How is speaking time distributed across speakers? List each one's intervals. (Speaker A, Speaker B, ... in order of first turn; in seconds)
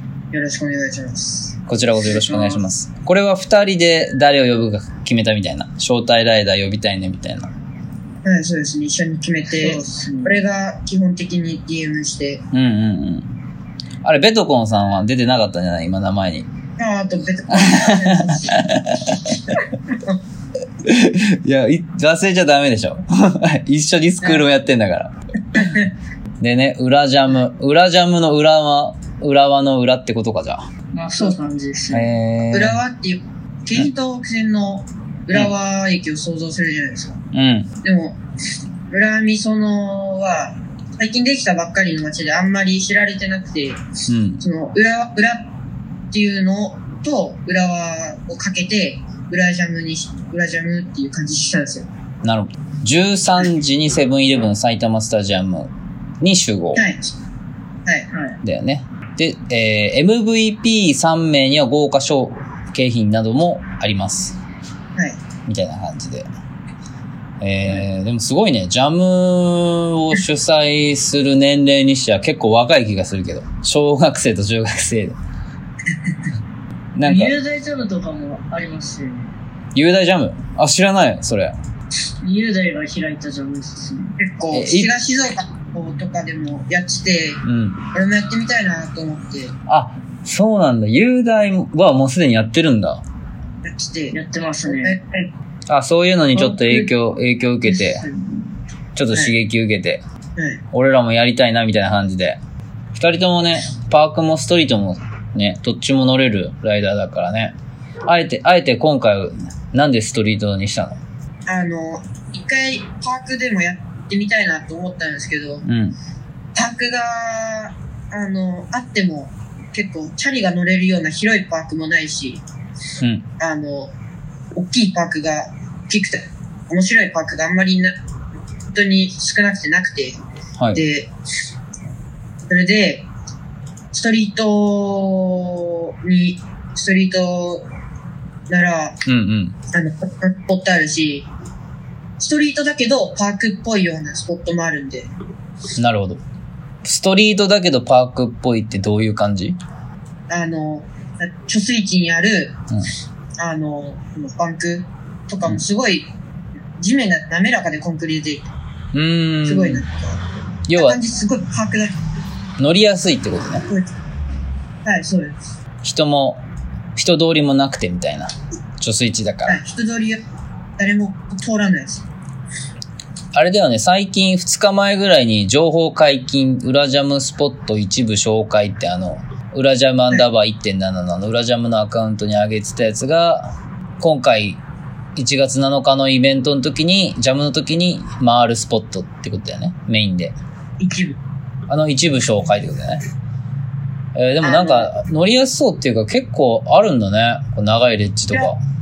Speaker A: 0.3-1.6, 8.2-12.4, 16.8-18.7, 19.5-20.2, 25.6-25.9, 32.5-37.2, 37.8-38.2, 38.9-43.8, 44.4-45.5, 46.1-51.9, 56.8-57.1, 84.2-87.4, 87.9-89.5, 93.6-95.3, 100.4-100.6, 111.5-115.6, 116.5-122.4, 123.4-123.9, 124.5-128.0, 128.7-130.2, 130.7-131.1, 132.5-133.1, 133.9-137.7, 138.5-139.0, 139.7-141.3, 142.2-145.1, 150.3-152.6, 153.4-156.1, 156.8-158.5, 159.4-160.2, 160.7-162.0, 164.8-165.4, 169.5-170.2, 170.8-172.0, 190.8-191.2, 194.4-194.9
Speaker B: 1.7-7.5, 12.5-13.3, 14.0-16.5, 17.5-19.5, 20.8-25.7, 26.4-30.7, 31.9-32.8, 37.3-37.7, 44.1-44.4, 52.2-56.9, 58.4-64.4, 65.5-66.3, 67.4-75.2, 77.0-77.3, 79.8-81.5, 84.5-84.9, 87.4-87.8, 89.7-93.0, 95.7-98.0, 99.0-100.0, 100.7-102.4, 103.0-107.5, 108.1-111.0, 115.7-116.0, 123.0-123.3, 139.1-139.6, 145.8-146.2, 146.8-149.6, 158.9-159.8, 160.7-161.0, 162.6-163.7, 165.8-166.4, 167.0-169.6, 173.3-184.6, 185.2-190.4, 191.7-193.0, 194.2-198.6
Speaker C: 2.1-2.6, 9.6-10.4, 30.9-32.1, 58.1-58.4, 77.0-79.3, 82.2-84.2, 94.1-95.0, 96.3-96.9, 97.7-98.6